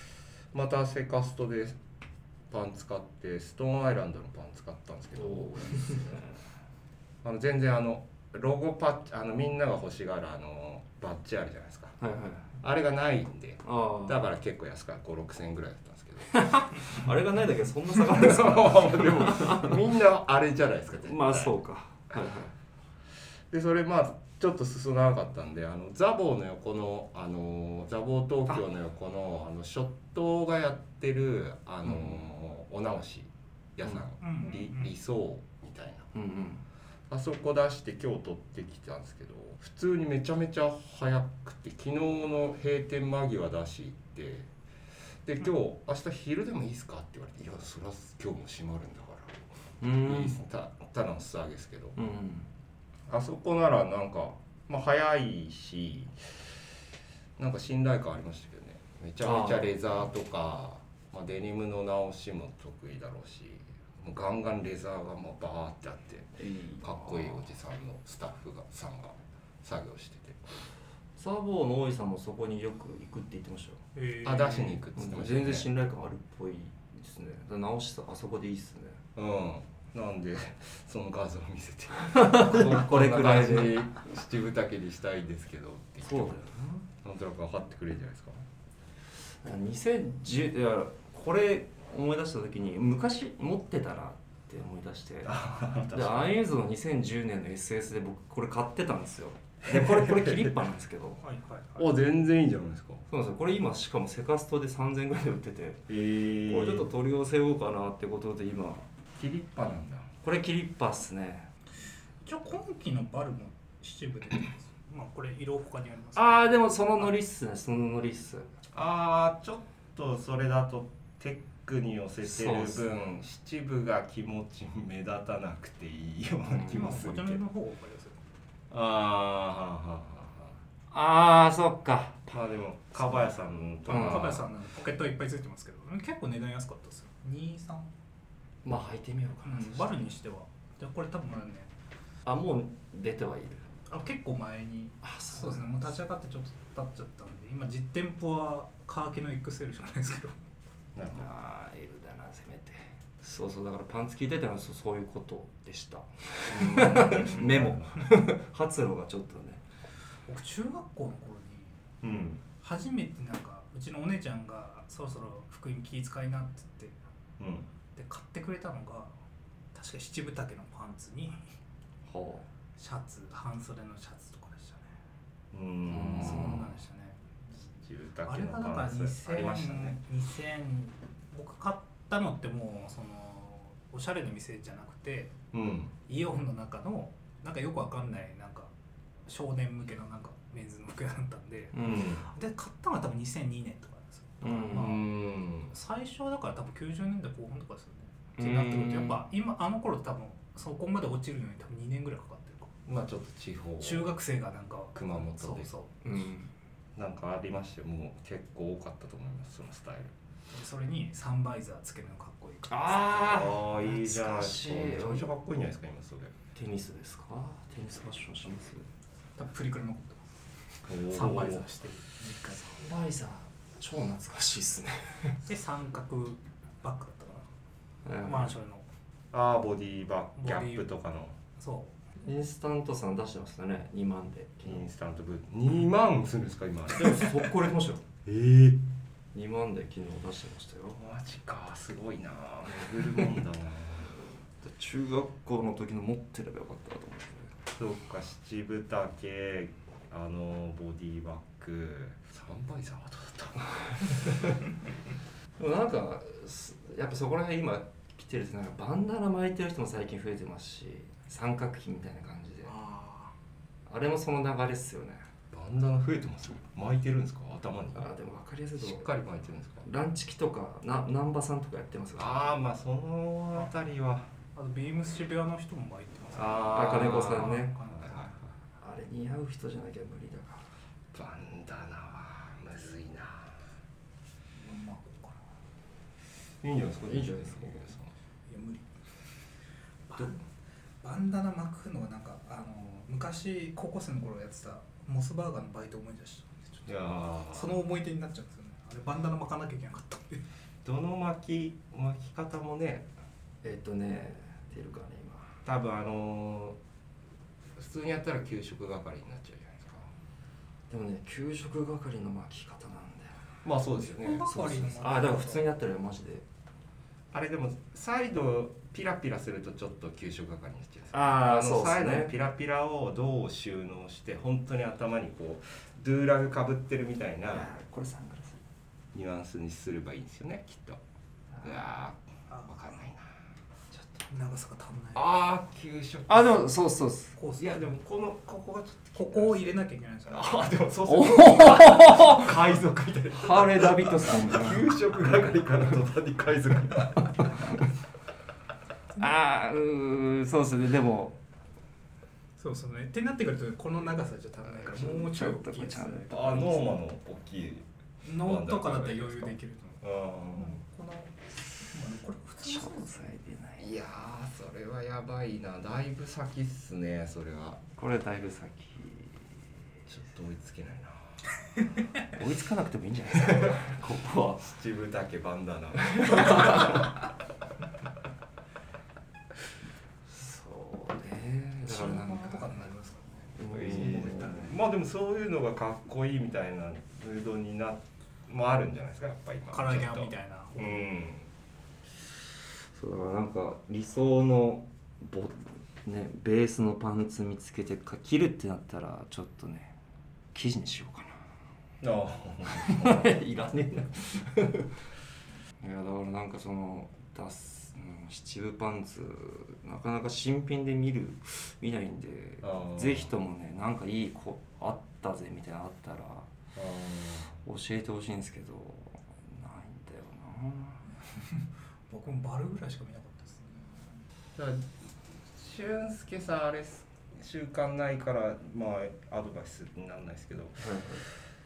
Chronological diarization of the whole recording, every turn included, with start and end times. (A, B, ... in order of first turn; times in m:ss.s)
0:00.5-0:01.8 A
0:02.5-0:06.2 A
0:05.1-0:06.4 B
0:07.2-0:12.0 A
0:12.0-0:12.5 B
0:12.6-0:16.3 A
0:13.6-0:14.2 B
0:16.3-0:19.8 B
0:18.0-0:21.6 A
0:21.0-0:22.5 B
0:23.5-0:36.1 A
0:31.8-0:32.2 B
0:34.2-0:34.9 C
0:36.1-0:36.6 B
0:37.1-0:44.5 A
0:45.2-0:52.0 A
0:49.8-0:50.4 B
0:52.0-0:52.5 B
0:53.1-0:56.4 A
0:57.4-1:10.6 A
0:59.2-0:59.8 B
1:06.4-1:07.5 B
1:11.2-1:13.8 B
1:13.9-1:14.8 C
1:14.2-1:15.7 A
1:14.9-1:19.0 B
1:19.2-1:26.5 A
1:22.1-1:23.9 B
1:26.0-1:26.9 B
1:27.0-1:28.4 A
1:29.4-1:35.3 B
1:35.2-1:36.3 A
1:35.9-1:41.2 B
1:39.6-1:40.6 A
1:41.2-1:42.0 C
1:41.8-1:43.0 A
1:43.1-1:48.8 B
1:45.9-1:46.9 A
1:49.2-1:50.1 A
1:50.2-1:51.5 B
1:52.2-1:57.1 C
1:56.1-1:58.5 B
1:58.7-2:07.4 A
2:02.2-2:02.9 B
2:06.5-2:07.0 B
2:06.7-2:08.2 C
2:08.7-2:10.6 A
2:10.9-2:12.3 B
2:12.3-2:14.5 A
2:13.8-2:17.9 C
2:13.9-2:14.4 B
2:18.6-2:20.1 B
2:19.4-2:21.7 C
2:22.2-2:23.7 B
2:23.9-2:30.4 C
2:25.0-2:25.9 B
2:30.9-2:31.3 A
2:31.1-2:39.6 B
2:36.5-2:37.9 A
2:37.0-2:37.3 C
2:40.3-2:41.7 C
2:42.0-2:42.4 A
2:42.6-2:47.0 C
2:47.4-2:47.7 A
2:47.9-2:49.1 C
2:49.7-2:51.4 C
2:52.1-2:52.5 B
2:52.8-2:54.9 C
2:55.5-2:56.6 A
2:55.9-2:56.7 B
2:55.9-2:57.2 C
2:57.7-3:00.0 A
2:58.2-3:05.3 C
3:05.5-3:05.9 A
3:06.0-3:08.7 C
3:09.3-3:15.1 C
3:11.7-3:12.2 B
3:11.8-3:12.2 A
3:14.4-3:15.0 B
3:14.7-3:15.7 A
3:15.7-3:22.8 C
3:18.4-3:19.2 B
3:22.8-3:24.1 A
3:23.8-3:26.0 C
3:24.9-3:25.7 A
3:26.0-3:26.5 B
3:27.0-3:30.1 A
3:30.5-3:33.6 C
3:32.7-3:35.3 B
3:33.2-3:36.4 A
3:36.5-3:38.8 B
3:39.4-3:40.3 C
3:40.8-3:42.9 C
3:40.9-3:41.6 A
3:42.8-3:45.4 B
3:45.4-3:47.5 C
3:48.0-3:48.5 B
3:48.2-3:48.9 C
3:49.3-3:51.4 A
3:50.4-3:50.9 C
3:51.6-3:51.9 C
3:52.2-3:54.9 B
3:54.6-3:57.6 A
3:56.9-3:58.0 B
3:58.2-3:58.8 A
3:59.3-4:01.0 B
4:01.0-4:04.1 A
4:04.6-4:07.5 B
4:07.7-4:14.4 A
4:15.6-4:22.8 B
4:22.6-4:23.3 C
4:23.9-4:25.2 B
4:25.5-4:28.1 A
4:27.9-4:29.1 B
4:28.8-4:29.9 A
4:29.8-4:32.6 B
4:32.2-4:34.3 A
4:34.5-4:38.4 C
4:36.3-4:37.8 B
4:36.4-4:38.3 A
4:38.8-4:40.7 B
4:41.1-4:43.6 A
4:44.6-4:45.4 C
4:46.6-4:48.1 A
4:47.0-4:47.9 B
4:48.5-4:48.9 C
4:50.1-4:50.4 C
4:51.0-5:00.4 C
4:56.9-4:57.8 A
5:00.8-5:03.1 A
5:03.6-5:05.5 B
5:05.6-5:06.8 A
5:07.8-5:10.1 A
5:10.9-5:13.4 B
5:13.6-5:14.8 A
5:14.2-5:15.7 C
5:14.5-5:16.4 B
5:17.3-5:27.7 A
5:21.1-5:22.3 B
5:27.5-5:28.6 B
5:29.1-5:31.0 A
5:31.6-5:33.3 A
5:33.9-5:34.2 B
5:34.3-5:35.3 C
5:35.1-5:36.7 A
5:36.3-5:37.4 B
5:37.4-5:38.0 C
5:37.6-5:47.5 A
5:39.1-5:40.6 C
5:41.1-5:42.6 B
5:43.3-5:45.0 B
5:49.2-5:51.4 B
5:52.6-5:56.8 C
5:54.6-5:56.8 B
5:56.3-6:00.8 A
5:58.2-6:03.3 C
6:02.6-6:03.9 B
6:03.8-6:07.8 A
6:07.9-6:09.5 B
6:10.1-6:11.4 A
6:12.2-6:14.7 B
6:13.4-6:13.8 A
6:14.6-6:17.2 A
6:16.0-6:17.1 B
6:20.3-6:22.9 B
6:21.8-6:23.5 C
6:23.5-6:24.8 B
6:23.6-6:31.5 A
6:29.7-6:31.1 C
6:32.9-6:39.9 B
6:40.5-6:41.4 B
6:42.0-6:43.4 A
6:42.8-6:44.9 B
6:45.8-6:56.5 B
6:52.6-6:53.3 A
6:56.7-6:57.6 A
6:57.6-7:01.0 B
7:01.4-7:04.1 C
7:04.6-7:04.9 A
7:05.4-7:10.9 A
7:10.8-7:11.2 B